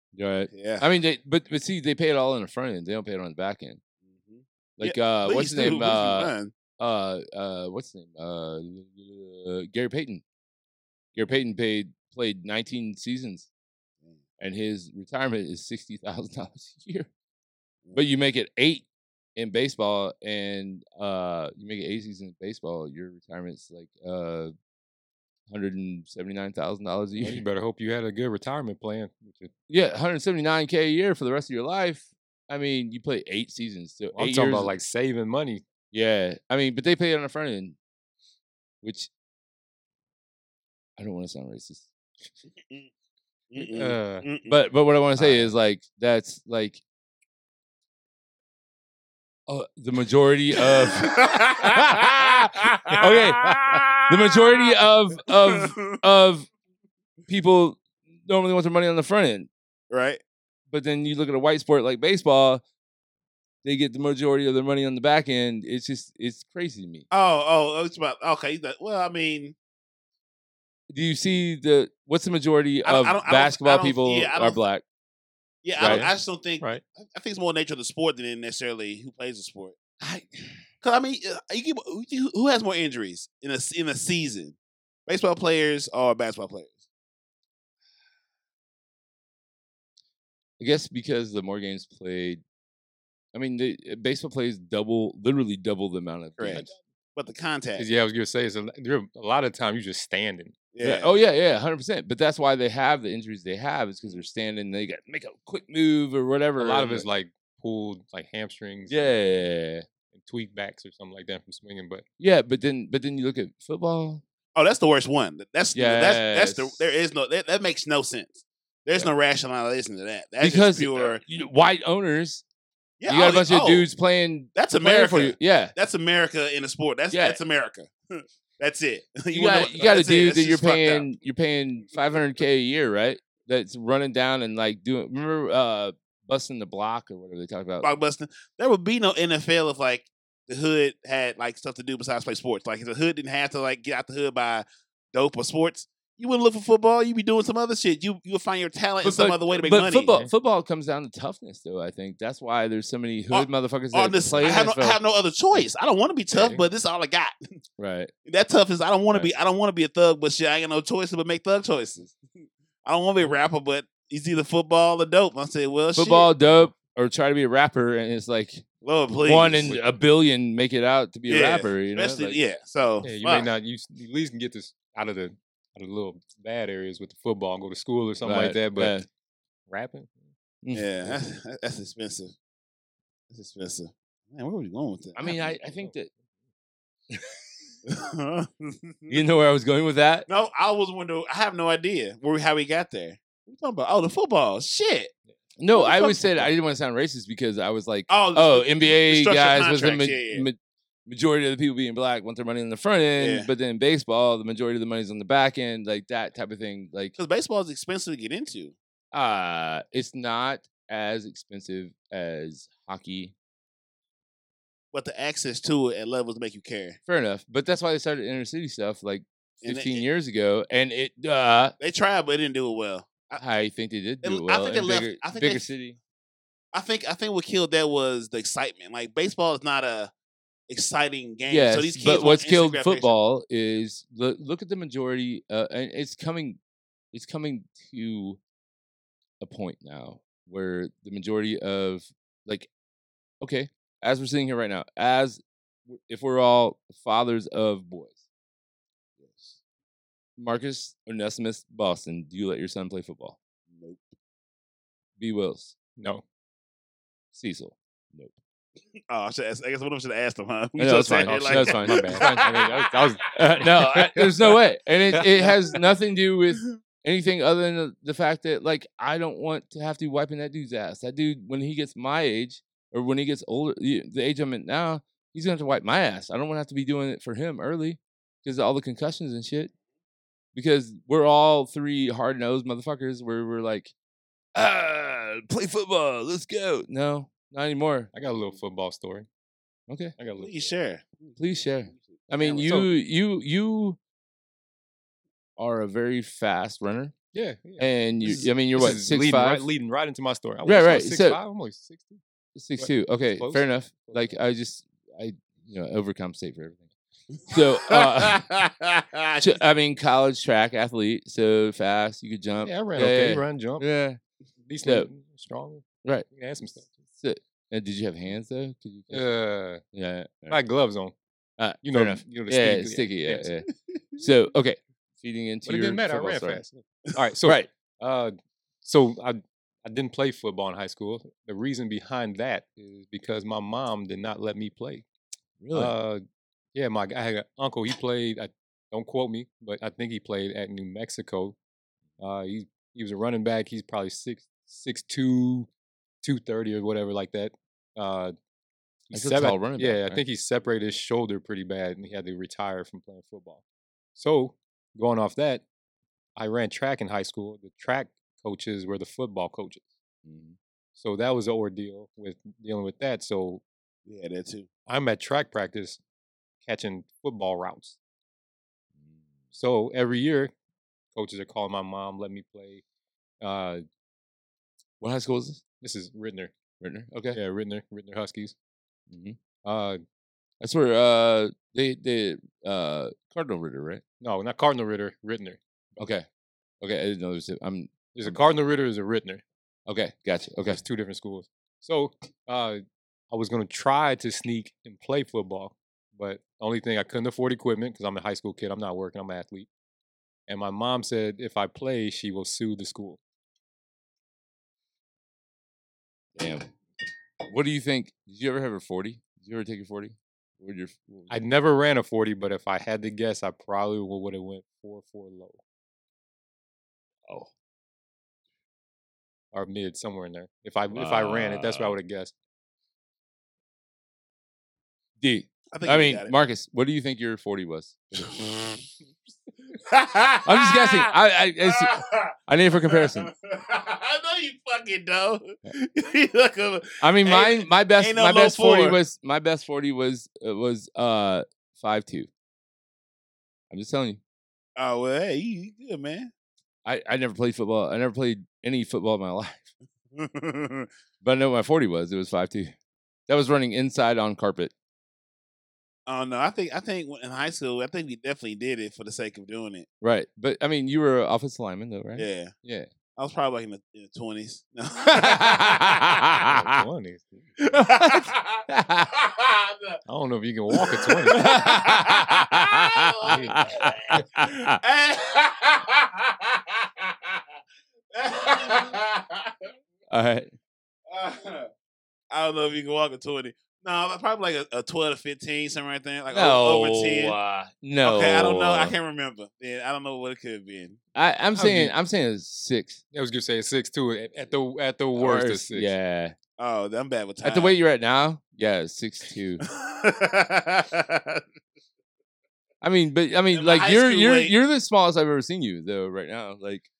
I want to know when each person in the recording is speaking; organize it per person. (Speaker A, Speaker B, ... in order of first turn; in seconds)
Speaker A: 0.1-3.8, 4.8-10.2, 11.2-13.5, 14.4-17.1, 17.9-24.5, 25.5-27.4, 29.7-34.7, 35.9-37.8, 38.8-39.1, 41.0-41.9, 44.5-46.8, 49.5-56.5, 57.3-59.5, 60.7-62.6, 63.6-67.1, 70.9-74.8, 75.8-76.1, 80.0-80.6, 90.6-92.4, 93.3-96.7, 100.8-107.1, 108.9-109.9, 112.2-114.2, 115.7-116.8, 120.4-122.4, 123.1-125.8, 127.1-127.4, 129.3-137.9, 149.0-155.0, 157.8-158.1, 165.9-168.7, 169.3-172.4, 178.2-179.1, 185.2-186.1, 189.1-190.3, 195.6-207.2, 209.1-213.3, 217.1-221.8, 223.4-226.0, 231.5-236.6, 237.1-238.4, 239.4-242.7, 243.4-248.2, 250.4-253.4, 255.2-255.7, 257.3-258.4, 260.8-262.5, 263.3-279.7, 280.5-283.9, 284.6-288.1, 289.9-290.1, 291.4-294.0, 295.6-297.1, 297.8-299.6, 300.6-301.4, 302.6-306.9, 307.5-308.5, 309.4-314.2, 314.8-315.1, 317.2-319.3, 319.9-320.6, 321.6-323.7, 324.2-326.6, 327.4-327.7, 335.6-335.9, 349.1-350.2, 360.2-360.6, 369.0-369.3, 375.0-375.6, 376.8-377.4, 379.1-379.4, 380.6-384.0, 386.0-386.3, 386.8-388.4, 389.9-390.8, 406.4-406.7, 407.5-411.3, 420.9-421.9, 425.2-428.3, 430.4-433.3, 437.0-442.3, 443.7-444.2, 446.9-449.7, 451.2-452.8, 453.3-454.7, 460.0-462.9, 465.1-466.5, 467.8-469.1, 471.3-474.8, 480.1-480.5, 486.3-488.9, 491.1-493.0, 495.2-496.4, 497.4-499.6, 502.8-506.9
Speaker B: 0.5-0.9, 4.0-6.5, 17.8-18.1, 43.5-44.6, 50.6-54.7, 55.3-56.0, 59.9-60.2, 67.1-69.6, 72.8-74.6, 75.6-79.8, 80.8-86.8, 96.4-97.9, 100.7-101.2, 114.5-121.2, 123.0-123.9, 124.5-131.1, 137.8-150.2, 153.3-157.3, 158.2-162.2, 162.8-166.3, 168.8-169.8, 171.3-173.5, 180.7-182.3, 183.3-185.4, 187.9-189.2, 190.3-195.1, 195.7-196.5, 198.1-200.5, 203.2-203.5, 207.2-208.8, 214.9-217.0, 219.6-220.1, 221.8-223.4, 224.2-225.7, 226.7-230.1, 230.7-233.1, 249.2-249.6, 253.7-254.1, 259.1-263.1, 290.4-291.4, 291.9-292.7, 307.4-309.6, 364.1-364.7, 425.7-426.3, 428.2-428.8, 429.8-439.0, 444.8-446.3, 450.1-450.9, 456.1-459.9, 462.2-462.5, 463.2-466.2, 467.6-470.0, 470.7-477.4, 478.1-479.7, 481.1-481.7, 482.3-487.4, 488.0-491.0, 496.6-497.8, 499.6-501.4, 503.5-504.6
Speaker C: 27.2-29.5, 34.1-35.6, 43.6-44.3, 45.2-45.5, 75.8-76.8, 97.8-100.5, 106.6-109.1, 110.1-112.0, 156.3-156.7, 173.0-179.0, 179.7-180.2, 185.3-185.9, 256.0-256.2, 261.2-264.6, 265.2-265.5, 288.1-289.3, 290.2-290.7, 292.6-292.9, 297.3-302.2, 302.8-304.4, 312.6-313.9, 314.6-316.9, 319.1-319.8, 320.5-321.1, 321.8-323.5, 325.7-335.1, 335.7-336.2, 336.8-341.6, 342.2-345.7, 346.2-348.4, 349.1-353.6, 354.2-355.6, 356.4-359.9, 361.0-363.6, 364.9-366.0, 366.6-368.0, 369.5-370.5, 371.1-372.8, 373.4-373.8, 375.8-376.5, 377.3-378.6, 379.6-380.0, 384.2-385.6, 388.1-389.4, 390.7-399.7, 400.5-403.2, 411.3-415.6, 419.5-422.3, 466.4-467.6, 470.1-471.6, 473.3-473.6, 491.6-491.9, 493.1-495.9